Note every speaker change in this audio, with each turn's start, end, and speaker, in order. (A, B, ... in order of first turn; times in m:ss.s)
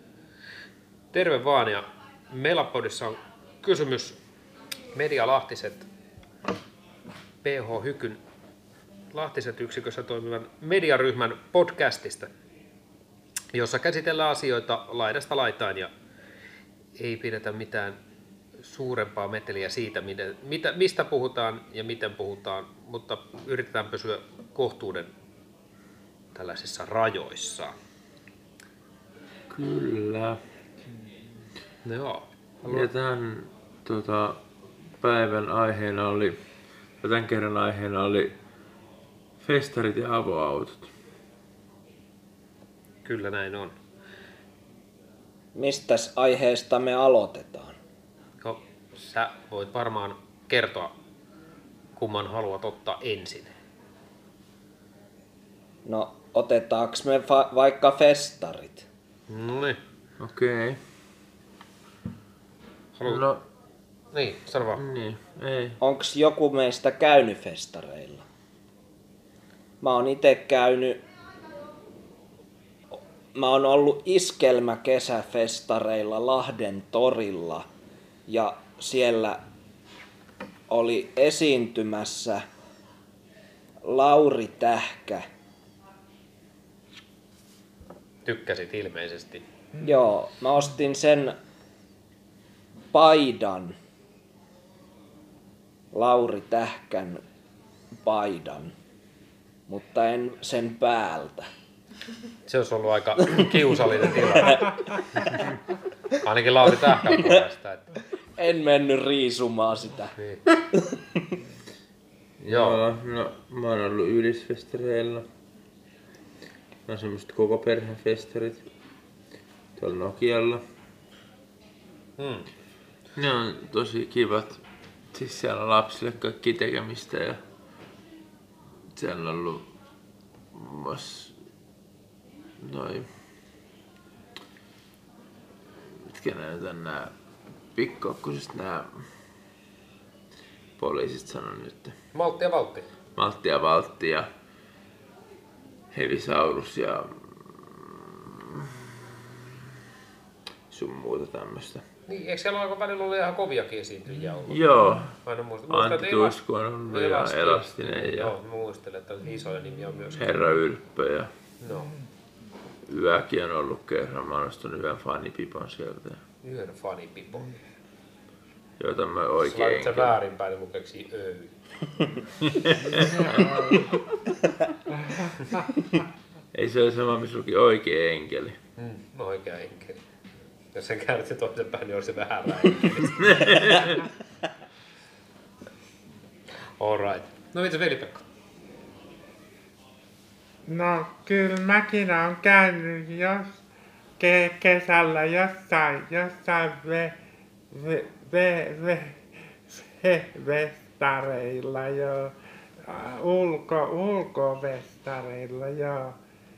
0:01.1-0:04.2 A
0:04.9-0:05.9 A
0:07.4-0:08.2 A
0:09.1-0:12.3 A
0:13.5-0:15.9 A
0:17.0-0:18.0 A
0:18.6-0:25.1 A
0:26.4-0:27.7 A
0:29.5-0:30.4 B
0:31.8-0:32.9 A
0:32.6-0:34.4 B
0:35.0-0:36.4 B
0:37.0-0:38.3 B
0:39.4-0:40.9 B
0:43.0-0:43.8 A
0:45.6-0:47.8 C
0:48.4-0:50.9 A
0:52.0-0:53.5 A
0:55.8-0:58.9 C
0:59.3-0:59.8 A
1:00.2-1:00.8 B
1:03.0-1:03.3 A
1:03.0-1:03.4 B
1:04.1-1:04.8 A
1:04.7-1:05.8 B
1:05.8-1:08.2 C
1:09.8-1:11.0 C
1:13.4-1:17.7 C
1:18.3-1:19.4 C
1:20.7-1:22.4 C
1:23.9-1:25.2 C
1:28.2-1:29.4 A
1:29.8-1:31.4 C
1:32.9-1:33.8 C
1:35.9-1:37.2 C
1:38.0-1:38.7 C
1:39.7-1:41.5 C
1:42.5-1:45.4 A
1:46.2-1:47.9 A
1:46.7-1:47.4 C
1:48.4-1:50.1 C
1:50.7-1:51.2 C
1:52.4-1:55.2 B
1:52.5-1:52.8 A
1:56.9-1:58.6 B
1:59.8-2:00.6 B
2:02.2-2:02.5 A
2:03.2-2:04.6 B
2:05.1-2:07.4 B
2:08.9-2:09.7 B
2:10.5-2:11.3 B
2:12.6-2:13.1 B
2:16.0-2:17.1 B
2:17.8-2:18.9 B
2:20.8-2:21.9 B
2:22.1-2:22.9 A
2:23.2-2:24.3 B
2:25.9-2:27.6 B
2:30.7-2:31.8 B
2:32.1-2:34.6 A
2:34.5-2:35.1 B
2:35.2-2:40.4 A
2:35.7-2:38.3 B
2:40.2-2:41.3 B
2:41.6-2:41.9 A
2:42.9-2:46.2 B
2:46.4-2:47.6 A
2:48.8-2:50.1 B
2:49.4-2:51.5 A
2:52.7-2:53.1 B
2:53.0-2:53.8 A
2:56.5-2:58.6 B
2:58.8-3:00.0 A
3:00.7-3:03.8 A
3:03.2-3:04.0 B
3:06.8-3:08.2 A
3:10.7-3:13.5 D
3:14.2-3:17.2 D
3:17.7-3:26.2 D